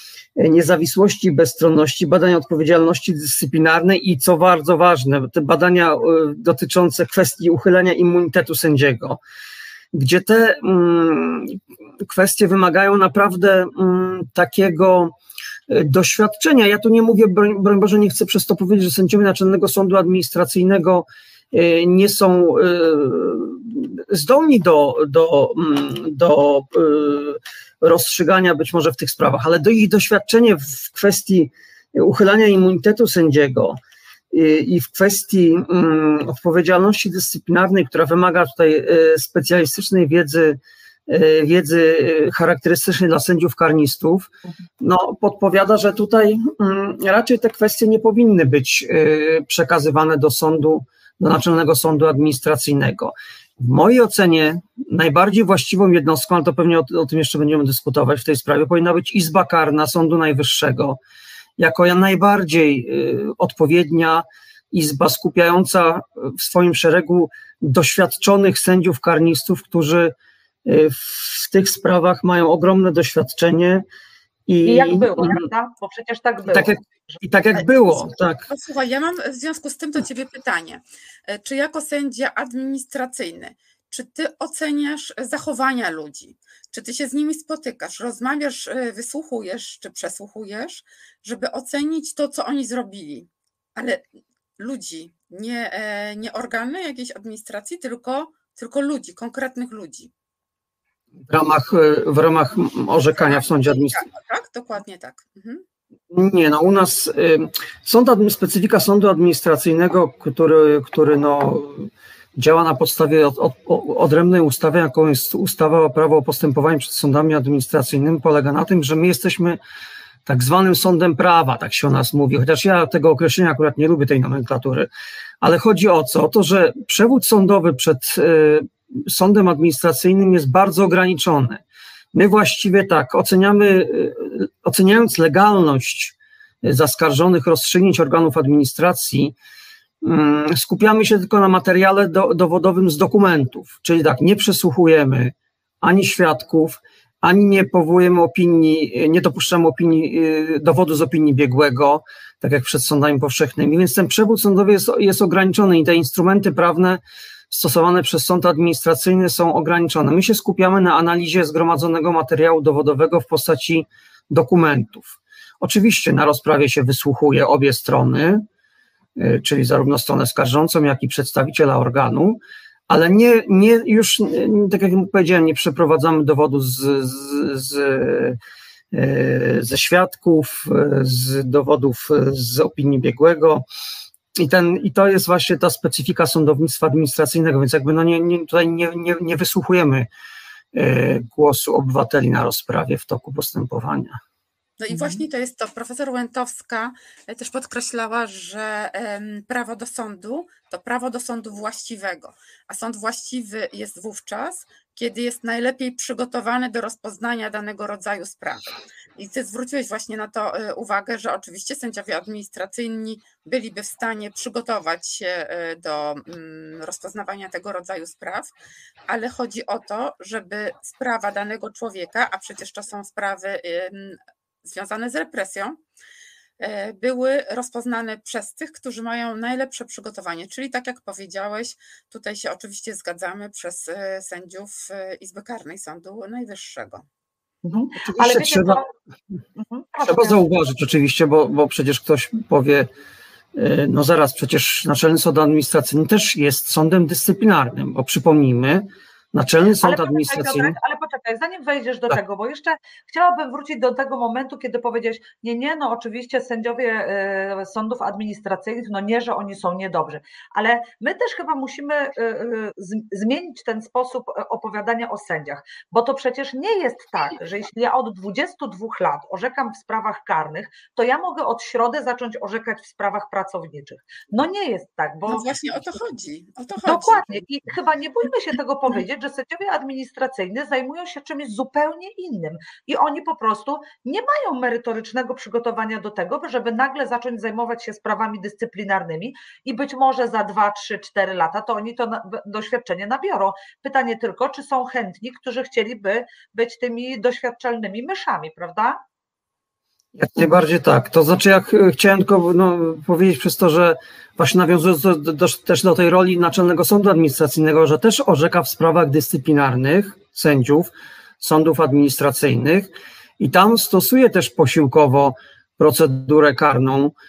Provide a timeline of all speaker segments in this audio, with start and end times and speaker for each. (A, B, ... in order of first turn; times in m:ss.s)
0:00.4-0:09.2 A
0:09.9-0:15.1 A
0:15.7-0:33.8 A
0:34.3-1:01.0 A
1:01.6-1:10.1 A
1:10.6-1:13.8 A
1:14.5-1:15.5 A
1:14.6-1:17.2 B
1:16.5-1:18.5 A
1:17.6-1:34.0 C
1:34.6-1:40.1 C
1:41.3-1:44.0 A
1:43.1-1:45.6 C
1:46.1-1:59.6 A
2:00.3-2:04.9 A
2:05.4-2:11.6 A
2:12.1-2:19.4 A
2:20.0-2:48.5 A
2:49.2-2:58.4 A
2:58.9-3:03.6 A
3:04.4-3:10.1 A
3:10.7-3:14.2 A
3:14.8-3:38.5 C
3:14.9-3:15.2 B
3:39.1-3:45.8 C
3:46.6-3:57.0 C
3:57.6-3:58.9 B
3:58.0-3:58.8 A
3:59.6-4:00.4 B
4:00.0-4:02.9 A
4:03.6-4:10.8 A
4:09.8-4:35.5 B
4:35.3-4:37.4 C
4:36.8-4:59.0 B
5:00.2-5:17.1 A